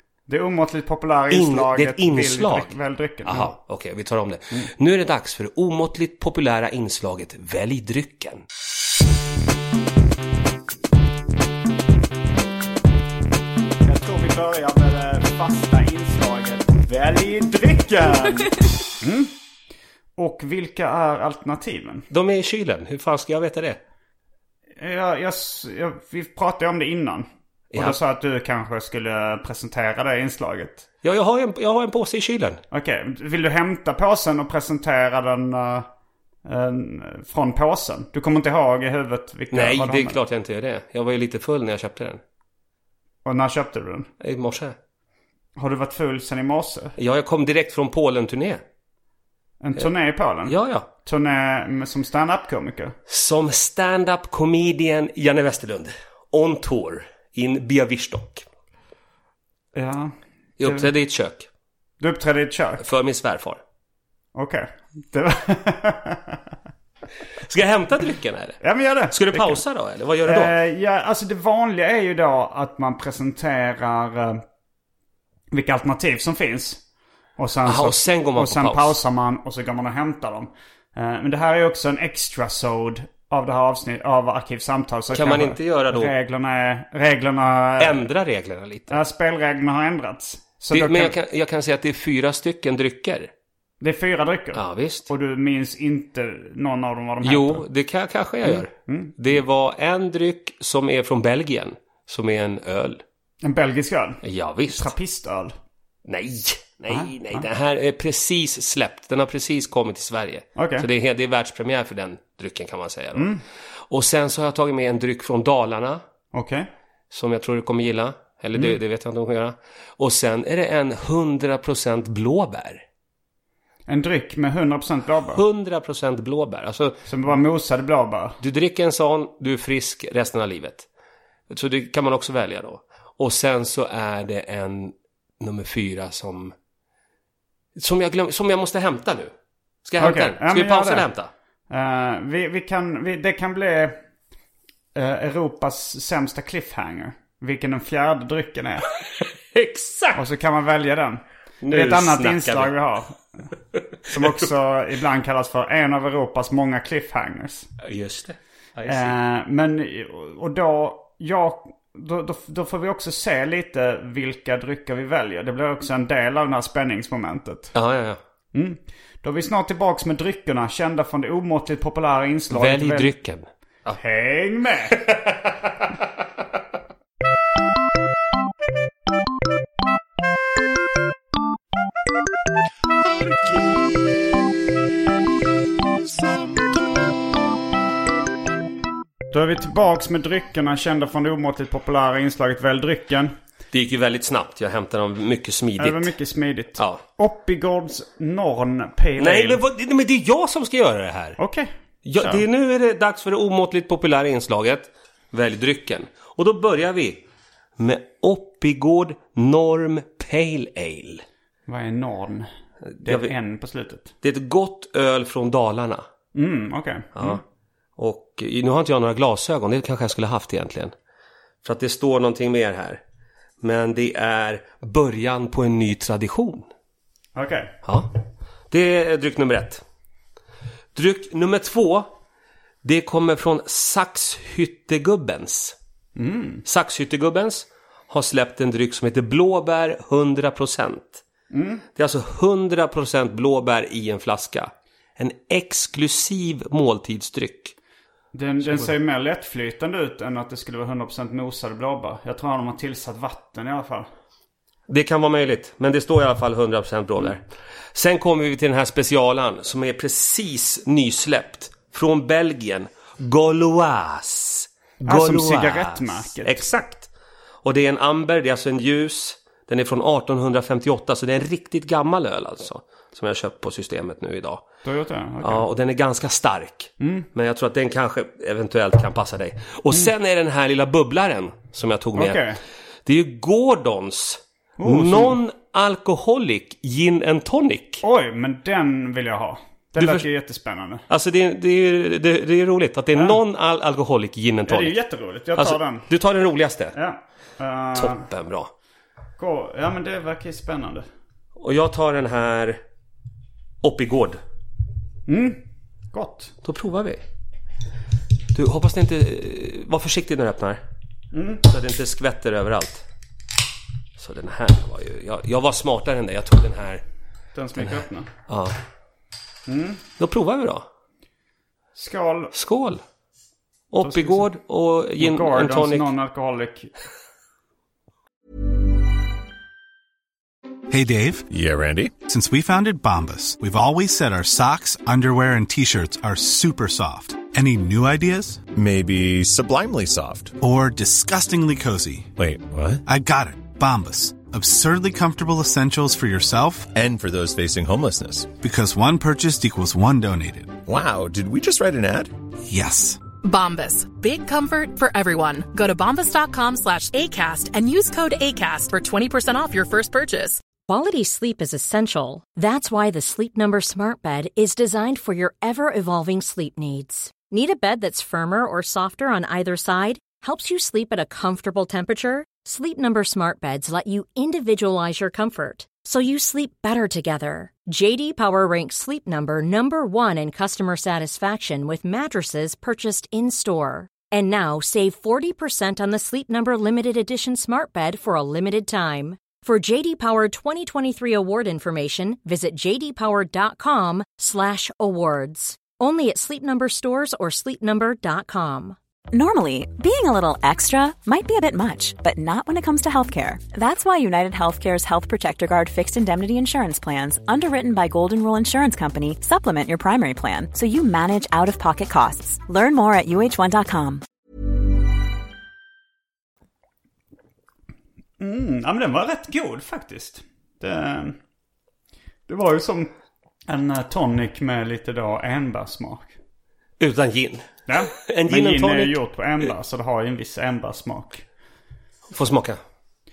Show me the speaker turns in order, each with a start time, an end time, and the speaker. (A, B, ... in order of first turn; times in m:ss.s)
0:00.3-0:03.5 A
0:01.3-0:02.7 B
0:03.3-0:08.4 B
0:13.8-0:19.3 A
0:20.2-0:22.1 A
0:22.1-0:23.8 B
0:24.8-0:30.8 A
0:27.7-0:28.0 B
0:31.0-0:32.6 B
0:32.7-0:35.9 A
0:36.4-0:40.2 A
0:39.5-0:42.2 B
0:43.2-0:44.1 A
0:44.2-0:44.8 B
0:45.6-0:47.0 A
0:47.0-0:48.6 B
0:49.6-0:53.0 A
0:50.5-0:50.9 B
0:53.1-0:58.5 B
0:59.8-1:00.9 A
1:00.6-1:01.5 B
1:02.0-1:02.8 A
1:02.8-1:03.6 B
1:04.4-1:06.4 A
1:07.4-1:10.5 B
1:08.6-1:09.6 A
1:10.2-1:14.4 A
1:15.5-1:16.8 A
1:17.4-1:28.1 A
1:17.7-1:19.0 B
1:25.1-1:26.1 B
1:27.8-1:29.0 B
1:28.9-1:31.1 A
1:30.7-1:33.3 B
1:33.8-1:37.6 A
1:34.5-1:35.1 B
1:37.2-1:43.0 B
1:38.4-1:39.1 A
1:43.4-1:45.5 A
1:44.2-1:44.9 B
1:46.1-1:53.4 B
1:46.9-1:47.4 A
1:50.6-1:50.9 A
1:53.2-1:53.4 A
1:53.9-1:56.0 B
1:56.3-1:56.7 A
1:57.1-2:02.8 B
2:03.9-2:05.4 A
2:05.3-2:07.0 B
2:07.1-2:08.4 A
2:08.4-2:10.9 B
2:11.5-2:16.5 B
2:17.8-2:19.3 B
2:19.8-2:21.3 B
2:20.0-2:21.1 A
2:21.7-2:24.0 A
2:25.0-2:28.9 A
2:29.5-2:30.2 B
2:30.2-2:33.4 A
2:31.6-2:32.7 B
2:34.1-2:34.4 B
2:34.1-2:37.7 A
2:37.8-2:39.2 B
2:38.9-2:47.7 A
2:47.7-2:48.2 B
2:48.5-2:53.1 A
2:52.5-2:54.0 B
2:54.0-2:55.0 A
2:55.0-2:55.3 B
3:09.3-3:13.4 A
3:13.7-3:16.1 B
3:15.8-3:19.6 A
3:16.8-3:17.0 B
3:19.2-3:21.4 B
3:21.4-3:22.4 A
3:22.0-3:27.2 B
3:27.8-3:31.2 B
3:31.7-3:32.5 A
3:32.9-3:33.3 B
3:33.0-3:34.1 A
3:34.2-3:36.1 B
3:36.4-3:37.4 A
3:37.2-3:37.4 B
3:38.0-3:40.9 B
3:41.6-3:43.0 B
3:43.6-3:46.7 B
3:47.4-3:47.7 A
3:47.8-3:48.1 B
3:48.7-3:49.8 B
3:51.0-3:52.1 B
3:52.8-3:55.8 B
3:56.2-3:56.6 A
3:56.6-4:01.2 B
4:01.5-4:01.8 A
4:02.0-4:07.8 B
4:08.3-4:14.1 A
4:08.6-4:08.9 B
4:14.9-4:17.4 B
4:17.9-4:27.1 B
4:25.0-4:26.6 A
4:27.6-4:34.7 B
4:34.8-4:35.7 A
4:35.4-4:42.4 B
4:37.0-4:37.3 A
4:42.2-4:42.6 A
4:43.1-4:48.0 B
4:44.8-4:45.4 A
4:48.0-4:51.0 A
4:50.0-4:50.3 B
4:51.1-4:55.0 B
4:54.7-4:56.1 A
4:55.6-4:57.0 B
4:56.9-4:58.3 A
4:58.0-4:58.7 B
4:59.4-5:01.1 A
5:01.6-5:02.8 B
5:03.8-5:04.4 B
5:05.3-5:05.6 A
5:06.1-5:06.5 A
5:06.6-5:07.2 B
5:08.5-5:10.8 B
5:11.3-5:11.6 A
5:11.6-5:13.0 B
5:14.2-5:17.0 B
5:17.6-5:18.3 A
5:17.8-5:18.8 B
5:19.7-5:20.0 A
5:20.2-5:20.9 B
5:22.0-5:22.5 A
5:22.5-5:23.0 B
5:23.9-5:26.1 B
5:24.0-5:24.5 A
5:25.2-5:26.9 A
5:30.9-5:31.5 C
5:31.5-5:32.2 D
5:32.2-5:38.6 C
5:38.7-5:40.6 D
5:40.6-5:42.3 C
5:42.4-5:43.0 D
5:43.1-5:46.9 C
5:47.0-5:48.6 D
5:48.6-5:50.8 C
5:50.9-5:52.3 D
5:52.7-5:53.2 C
5:53.4-6:00.6 E
6:00.9-6:39.0 F
6:39.3-6:54.2 G
6:58.4-7:01.4 A
7:02.5-7:03.1 A
7:03.7-7:06.4 A
7:07.0-7:09.2 B
7:07.9-7:11.4 A
7:12.3-7:12.8 B